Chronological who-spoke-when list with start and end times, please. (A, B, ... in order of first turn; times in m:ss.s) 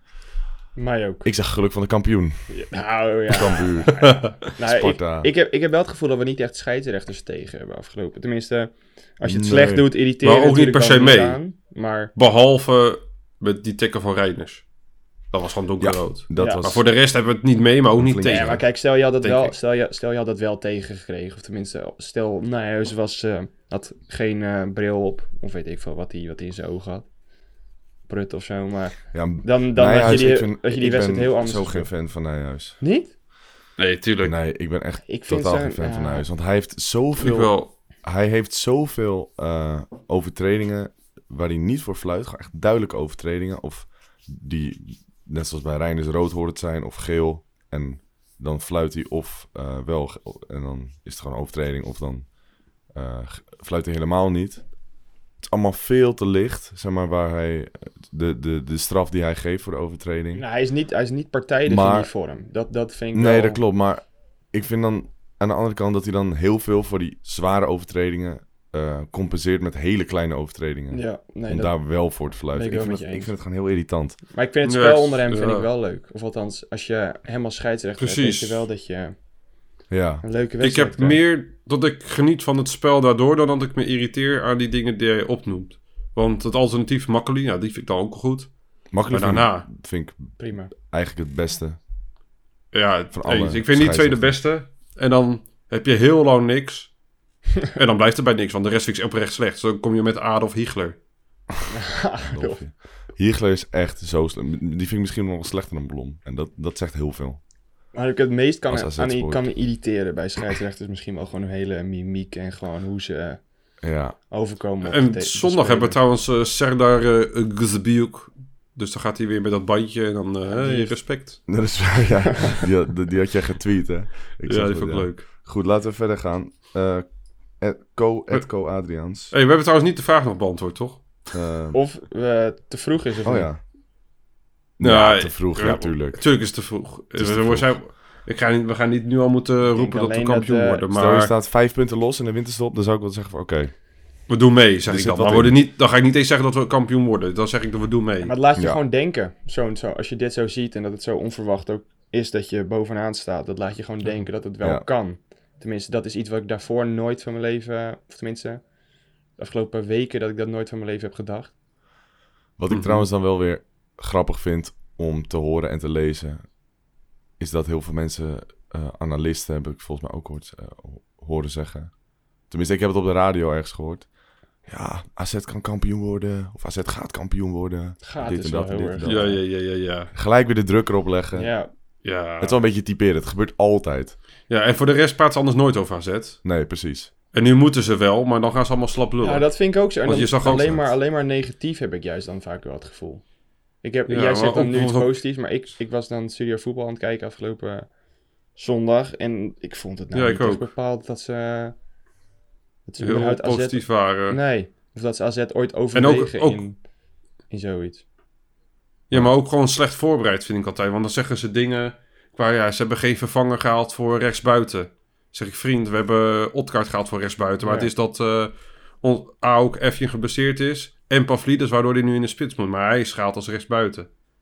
0:00.8-0:01.3 A
0:01.2-0:02.6 B
0:02.5-0:12.1 A
0:03.3-0:05.3 B
0:04.0-0:04.3 C
0:09.2-0:09.9 B
0:10.2-0:11.4 C
0:12.2-0:14.7 C
0:15.3-0:18.7 C
0:15.8-0:16.9 B
0:16.4-0:16.6 A
0:18.0-0:18.7 B
0:18.2-0:27.1 A
0:19.2-0:19.5 C
0:28.1-0:31.9 A
0:29.1-0:32.8 B
0:32.8-0:33.1 A
0:33.8-0:34.4 C
0:34.2-0:52.3 B
0:35.1-0:36.3 A
0:37.2-0:37.7 C
0:52.9-0:54.8 B
0:55.4-1:00.4 B
1:00.4-1:03.6 A
1:01.7-1:02.1 B
1:03.1-1:14.2 B
1:10.9-1:13.3 A
1:14.3-1:19.2 A
1:14.6-1:15.7 C
1:18.0-1:18.6 C
1:19.9-1:20.2 B
1:20.2-1:21.2 A
1:20.6-1:29.7 C
1:28.9-1:31.8 B
1:30.4-1:30.7 A
1:32.7-1:37.0 C
1:33.1-1:34.4 B
1:37.7-1:41.0 C
1:41.7-1:42.6 A
1:42.2-1:47.4 B
1:47.9-1:53.8 A
1:48.7-1:49.5 B
1:53.8-1:54.2 B
1:54.3-1:56.0 A
1:54.8-2:01.5 C
2:00.5-2:01.0 A
2:01.5-2:09.3 B
2:04.5-2:05.3 C
2:08.3-2:08.6 C
2:09.3-2:11.3 C
2:11.3-2:11.8 B
2:11.7-2:13.5 A
2:13.2-2:13.6 B
2:14.8-2:17.8 B
2:14.8-2:21.3 C
2:19.7-2:20.8 A
2:20.9-2:23.8 B
2:24.3-2:28.3 C
2:24.9-2:25.6 B
2:28.2-2:38.7 A
2:34.6-2:34.9 B
2:39.4-2:41.5 A
2:42.6-2:46.5 B
2:42.7-2:43.1 C
2:47.4-2:52.0 B
2:52.5-2:54.1 B
2:54.7-3:01.6 B
2:58.0-2:59.4 A
2:59.0-3:00.1 C
3:01.3-3:01.7 A
3:02.0-3:02.6 C
3:02.4-3:04.2 B
3:04.5-3:06.4 C
3:06.4-3:07.1 B
3:07.3-3:10.8 C
3:09.2-3:13.2 A
3:13.8-3:18.0 A
3:14.1-3:15.2 C
3:18.5-3:21.8 A
3:20.1-3:20.7 C
3:22.9-3:26.9 A
3:23.0-3:24.4 C
3:26.0-3:26.7 C
3:27.5-3:28.0 A
3:29.1-3:44.1 C
3:37.6-3:37.9 A